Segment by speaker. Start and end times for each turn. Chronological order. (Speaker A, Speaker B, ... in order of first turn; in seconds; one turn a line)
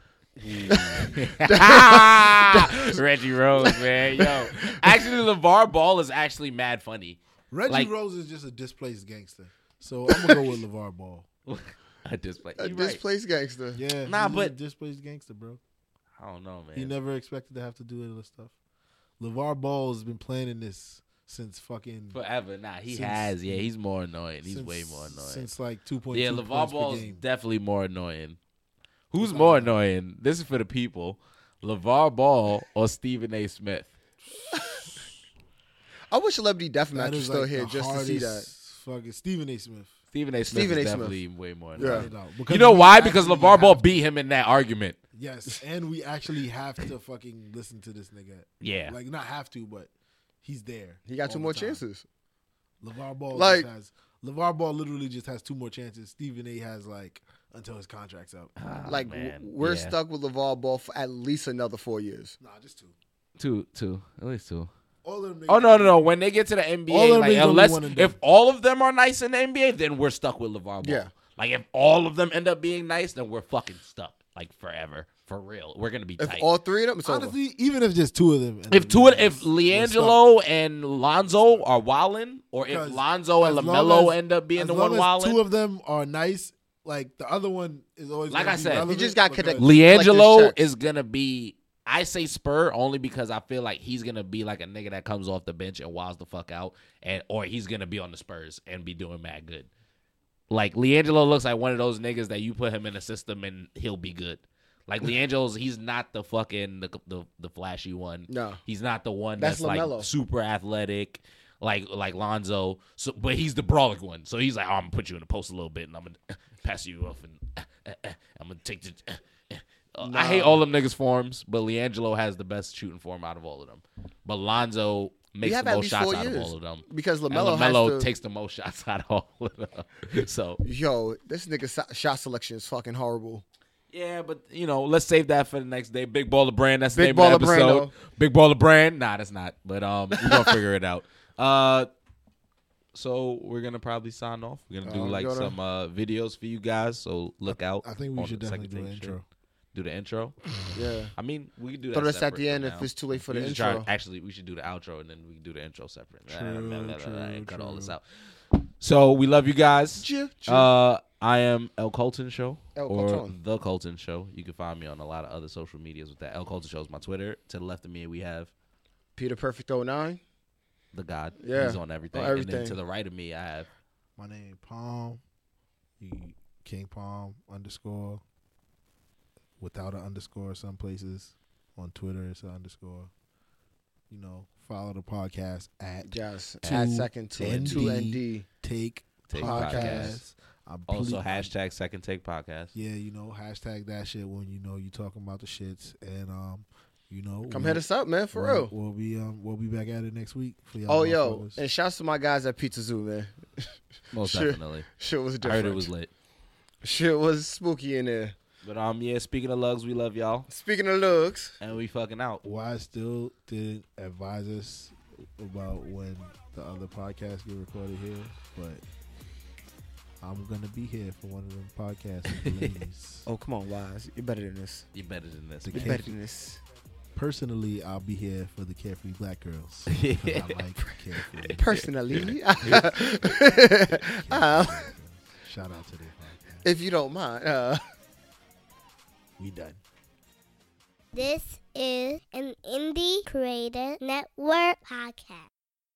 Speaker A: 0.4-7.9
Speaker B: 0.7-3.0
Speaker B: 3.6-4.8
Speaker C: 7.5-11.3
Speaker B: 10.1-10.4
Speaker A: 11.5-13.0
Speaker B: 12.6-13.8
Speaker C: 13.8-15.6
Speaker A: 14.1-14.5
Speaker A: 16.2-16.9
Speaker C: 16.8-18.5
Speaker C: 19.2-22.2
Speaker A: 22.1-25.5
Speaker C: 22.9-23.7
Speaker C: 24.4-27.2
Speaker A: 26.1-28.4
Speaker A: 29.1-33.9
Speaker C: 29.2-29.8
Speaker B: 34.5-35.0
Speaker B: 36.1-38.5
Speaker C: 36.9-39.9
Speaker A: 40.1-45.0
Speaker B: 40.5-41.2
Speaker B: 41.8-42.1
Speaker C: 41.8-44.0
Speaker C: 45.1-49.9
Speaker A: 48.6-49.0
Speaker C: 50.4-51.8
Speaker B: 51.1-52.0
Speaker C: 52.8-58.5
Speaker B: 53.3-53.7
Speaker A: 58.6-60.0
Speaker B: 58.9-62.4
Speaker C: 62.4-63.0
Speaker A: 63.4-64.7
Speaker C: 65.0-66.0
Speaker A: 65.5-76.5
Speaker C: 66.9-68.2
Speaker B: 70.8-71.1
Speaker B: 76.2-77.3
Speaker C: 77.0-80.2
Speaker A: 78.7-85.4
Speaker C: 82.7-89.8
Speaker A: 88.3-88.9
Speaker B: 88.9-90.6
Speaker A: 89.6-99.7
Speaker A: 100.5-130.6
Speaker B: 108.3-108.6
Speaker B: 109.4-110.1
Speaker B: 120.0-120.6
Speaker B: 125.4-128.1
Speaker B: 130.6-133.4
Speaker A: 133.9-141.9
Speaker B: 136.9-137.9
Speaker B: 140.2-140.5
Speaker A: 142.9-149.2
Speaker B: 144.8-145.6
Speaker C: 147.5-149.2
Speaker A: 149.7-150.4
Speaker B: 150.8-151.1
Speaker A: 151.2-168.5
Speaker B: 151.9-153.9
Speaker C: 156.3-158.0
Speaker B: 160.0-160.7
Speaker B: 162.8-163.3
Speaker B: 169.2-170.2
Speaker A: 170.9-173.7
Speaker B: 171.4-172.8
Speaker C: 174.2-175.2
Speaker C: 176.0-178.2
Speaker C: 179.6-183.1
Speaker C: 184.1-191.5
Speaker B: 186.1-188.5
Speaker A: 186.6-187.9
Speaker A: 189.3-190.2
Speaker B: 189.4-190.2
Speaker A: 190.9-192.7
Speaker C: 192.7-201.6
Speaker B: 197.5-198.7
Speaker B: 200.9-205.9
Speaker A: 204.1-204.9
Speaker A: 205.4-206.1
Speaker B: 206.8-208.3
Speaker A: 208.6-210.5
Speaker B: 210.5-211.6
Speaker A: 211.6-212.4
Speaker C: 212.4-218.8
Speaker C: 220.2-223.3
Speaker A: 222.3-222.8
Speaker B: 223.3-224.9
Speaker A: 224.9-226.0
Speaker C: 225.6-226.1
Speaker B: 225.7-226.6
Speaker C: 227.2-231.6
Speaker A: 229.9-230.6
Speaker A: 231.4-232.8
Speaker B: 231.5-234.9
Speaker C: 232.6-236.7
Speaker B: 236.6-237.8
Speaker C: 239.4-239.8
Speaker D: 241.1-245.5